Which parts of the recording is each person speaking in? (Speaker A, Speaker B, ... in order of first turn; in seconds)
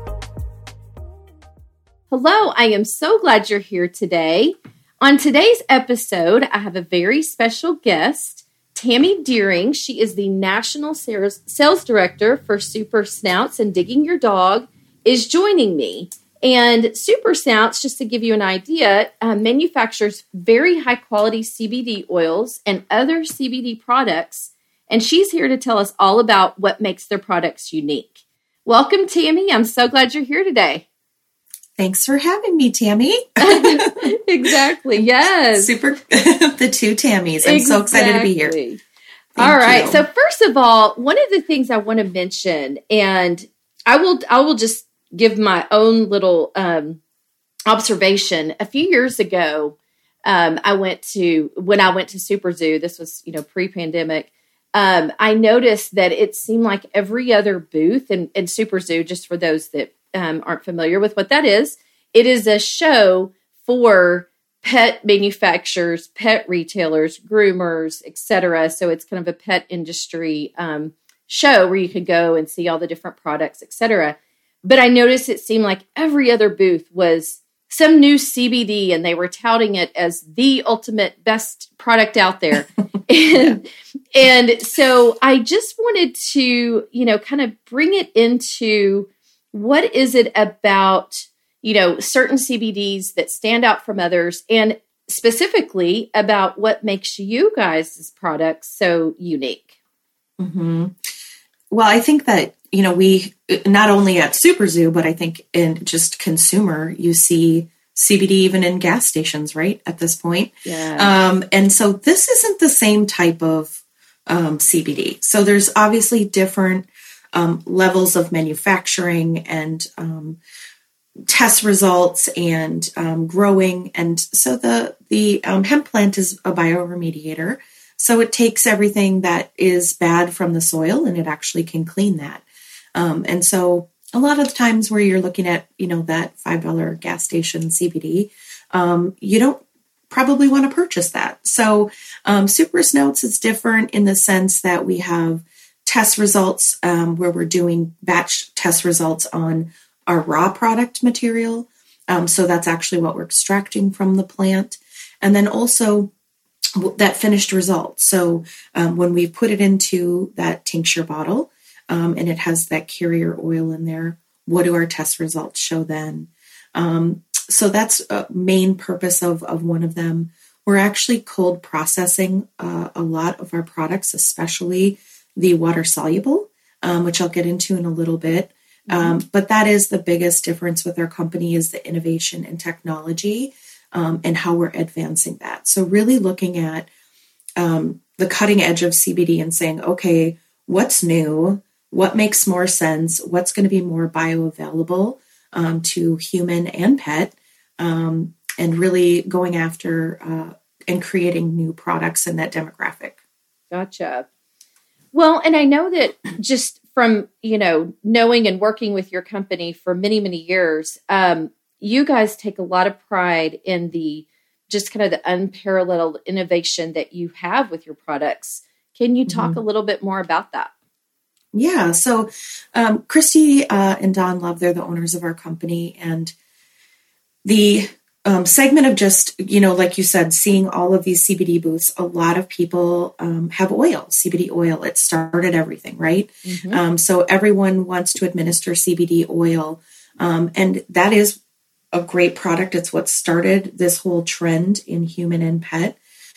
Speaker A: 2.1-30.9, 33.4-35.7, 37.4-38.8, 39.4-47.0, 47.7-99.8, 110.7-111.2, 178.9-179.2, 203.7-204.3, 205.1-220.7, 236.4-236.8
Speaker B: 31.8-38.5, 39.4-40.0, 100.4-101.0, 101.7-120.4, 121.3-156.1, 156.7-186.9, 187.6-203.2, 219.3-219.6, 221.5-226.3, 227.4-241.4, 241.9-246.0